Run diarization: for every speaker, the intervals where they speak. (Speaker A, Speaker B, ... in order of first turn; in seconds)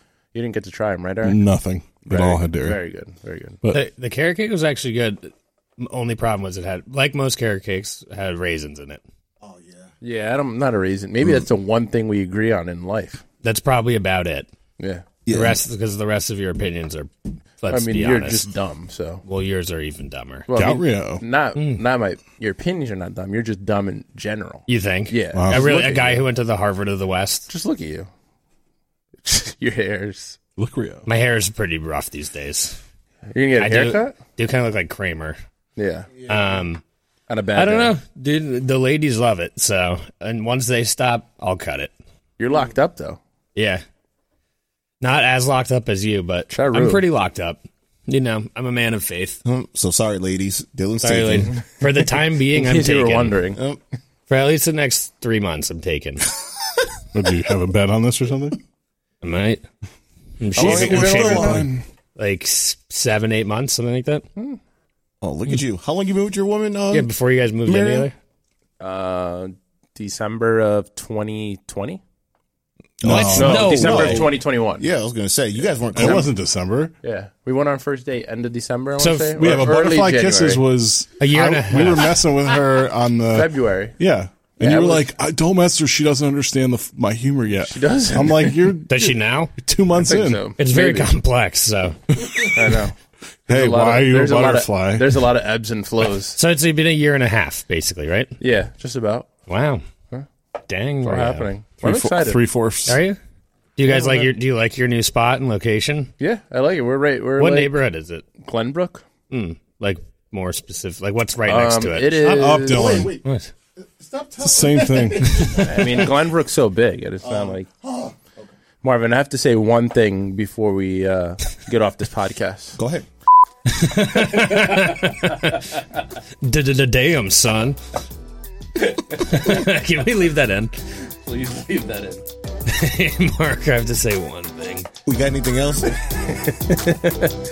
Speaker A: 0.3-1.4, 2.0-3.6, 10.0-13.2, 14.8-15.1, 17.7-19.2, 20.5-26.2, 27.5-28.1, 29.2-30.4, 33.3-34.2, 35.8-36.1, 37.3-38.0, 42.4-43.2, 46.5-47.0, 52.4-53.6, 60.5-61.7, 68.8-72.0, 73.3-74.9, 77.0-80.6, 83.3-83.9, 84.6-85.0, 87.7-88.8, 90.0-91.1, 92.5-92.9, 93.5-96.4, 98.4-99.3, 101.0-102.4, 103.8-104.3, 106.2-107.8, 108.4-109.0, 111.5-113.1, 115.4-117.7, 118.8-122.8, 131.2-132.2, 136.0-137.3
Speaker B: 1.2-2.8, 20.5-21.2, 25.3-25.8, 30.6-31.1, 57.1-58.6, 60.5-61.8, 73.0-74.0, 75.9-76.9, 79.4-90.5, 92.2-92.5, 93.5-95.2, 101.8-103.0, 112.2-113.2, 114.4-115.6
Speaker C: 3.7-9.0, 13.4-14.5, 15.3-18.4, 19.2-20.5, 24.7-27.5, 31.1-32.8, 33.6-35.4, 36.2-36.8, 37.5-41.9, 43.5-43.8, 45.0-49.4, 51.0-53.4, 54.3-56.2, 59.2-59.6, 60.4-64.2, 66.9-68.1, 73.0-74.3, 79.0-79.3, 81.2-82.2, 88.9-89.5, 90.6-92.0, 96.3-98.4, 99.5-99.8, 100.7-101.5, 102.9-103.2, 103.8-106.1, 107.4-108.2, 109.3-112.5, 113.2-113.5, 115.3-115.7, 123.7-125.6, 126.4-127.8, 129.1-130.7, 132.7-134.9
Speaker D: 9.5-9.8, 15.2-15.6, 49.4-51.5, 53.5-53.8, 60.9-61.6, 65.2-67.1, 67.6-68.1, 73.0-76.3, 112.7-113.2, 114.0-115.5, 117.4-118.1, 122.8-123.0, 135.1-135.9